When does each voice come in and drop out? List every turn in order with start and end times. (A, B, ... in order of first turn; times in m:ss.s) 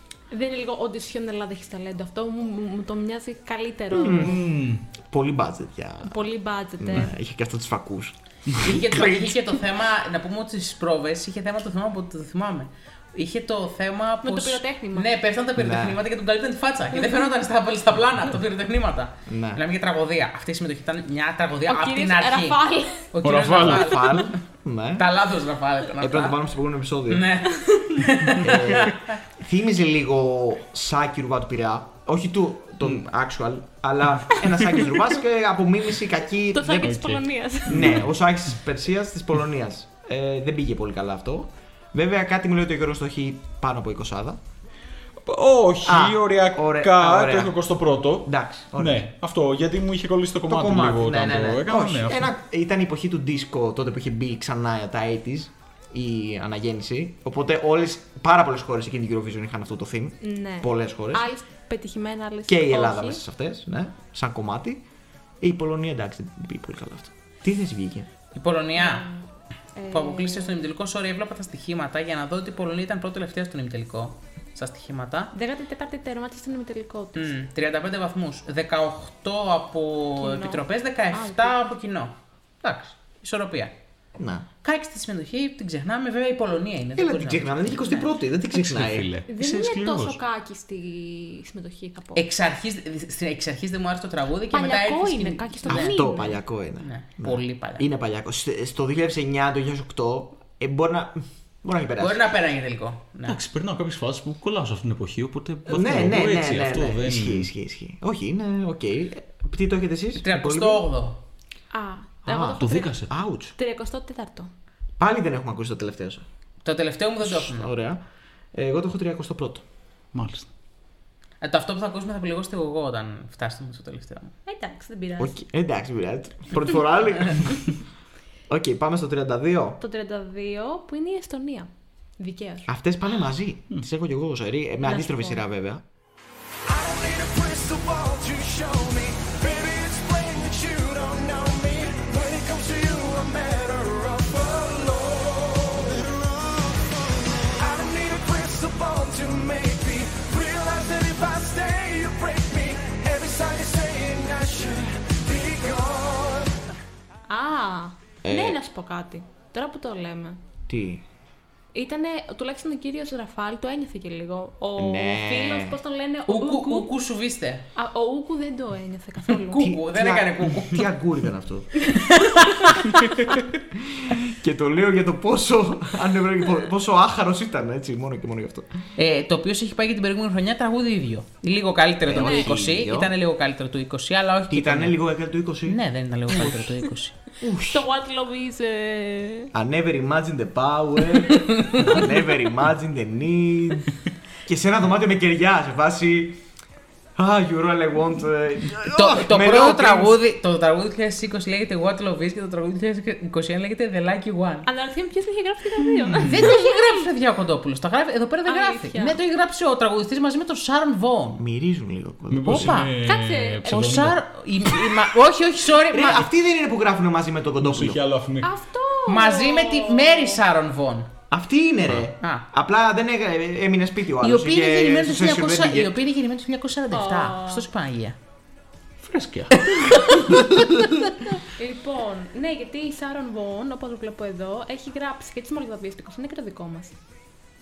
0:00.3-0:04.4 A
0:03.9-0:04.5 B
0:04.1-0:04.8 C
0:05.1-0:09.6 B
0:06.0-0:07.1 A
0:08.6-0:24.3 D
0:14.2-0:15.1 A
0:15.6-0:16.0 B
0:19.2-0:19.6 B
0:21.7-0:23.0 A
0:23.2-0:24.3 C
0:23.6-0:25.1 B
0:25.0-0:26.4 D
0:26.0-0:27.3 B
0:27.1-0:29.1 D
0:27.7-0:28.0 A
0:28.4-0:44.4 B
0:36.5-0:38.0 A
0:36.8-0:38.1 C
0:45.2-0:52.3 C
0:45.8-0:47.6 B
0:48.2-0:49.1 B
0:50.5-1:01.3 B
1:00.2-1:03.2 A
1:02.5-1:04.8 B
1:05.4-1:08.1 B
1:08.3-1:09.0 D
1:08.8-1:10.6 A
1:09.9-1:15.3 D
1:15.3-1:17.3 A
1:17.1-1:23.7 D
1:20.2-1:21.6 A
1:24.2-1:24.4 B
1:24.6-1:28.1 D
1:27.0-1:29.1 B
1:28.5-1:30.2 C
1:29.3-1:32.2 A
1:32.1-1:36.0 D
1:34.5-1:36.4 A
1:35.7-1:42.2 B
1:36.8-1:37.9 D
1:42.0-1:43.4 D
1:43.3-1:47.5 C
1:45.7-1:50.9 B
1:50.2-1:51.2 D
1:51.7-1:53.0 A
1:52.2-1:53.5 B
1:52.6-1:53.1 C
1:53.6-1:54.5 A
1:55.0-1:56.2 B
1:56.6-1:57.7 D
1:57.2-1:58.0 B
1:58.5-1:59.6 B
2:00.1-2:00.5 C
2:01.4-2:04.3 D
2:04.4-2:05.4 A
2:05.2-2:07.7 B
2:08.5-2:09.8 B
2:09.8-2:12.7 A
2:12.7-2:15.8 B
2:14.8-2:15.4 A
2:16.7-2:36.6 E
2:37.3-2:40.4 A
2:38.2-2:38.6 B
2:40.7-2:41.0 B
2:41.7-2:46.9 A
2:44.8-2:45.8 B
2:46.3-2:47.6 D
2:47.8-2:49.7 A
2:49.3-2:50.8 D
2:49.6-2:51.9 B
2:52.1-2:52.9 D
2:53.7-2:58.7 B
2:59.0-3:05.0 D
3:02.0-3:03.1 B
3:02.1-3:02.5 A
3:04.5-3:06.8 B
3:05.6-3:07.2 D
3:07.4-3:07.8 B
3:07.7-3:09.5 A
3:09.5-3:13.9 B
3:11.4-3:12.0 D
3:14.4-3:16.4 B
3:17.2-3:20.2 B
3:18.8-3:24.7 D
3:24.6-3:27.1 A
3:25.8-3:26.5 C
3:26.2-3:31.4 D
3:28.4-3:29.2 A
3:31.4-3:32.9 B
3:32.3-3:34.2 C
3:32.4-3:32.9 D
3:33.0-3:34.0 A
3:33.7-3:36.3 D
3:35.9-3:38.0 B
3:37.6-3:38.5 C
3:38.4-3:40.4 A
3:39.1-3:41.1 D
3:41.3-3:46.0 B
3:42.2-3:42.4 D
3:44.2-3:48.2 D
3:46.9-3:47.6 A
3:49.0-3:49.7 C
3:50.4-3:50.8 B
3:51.3-3:56.9 A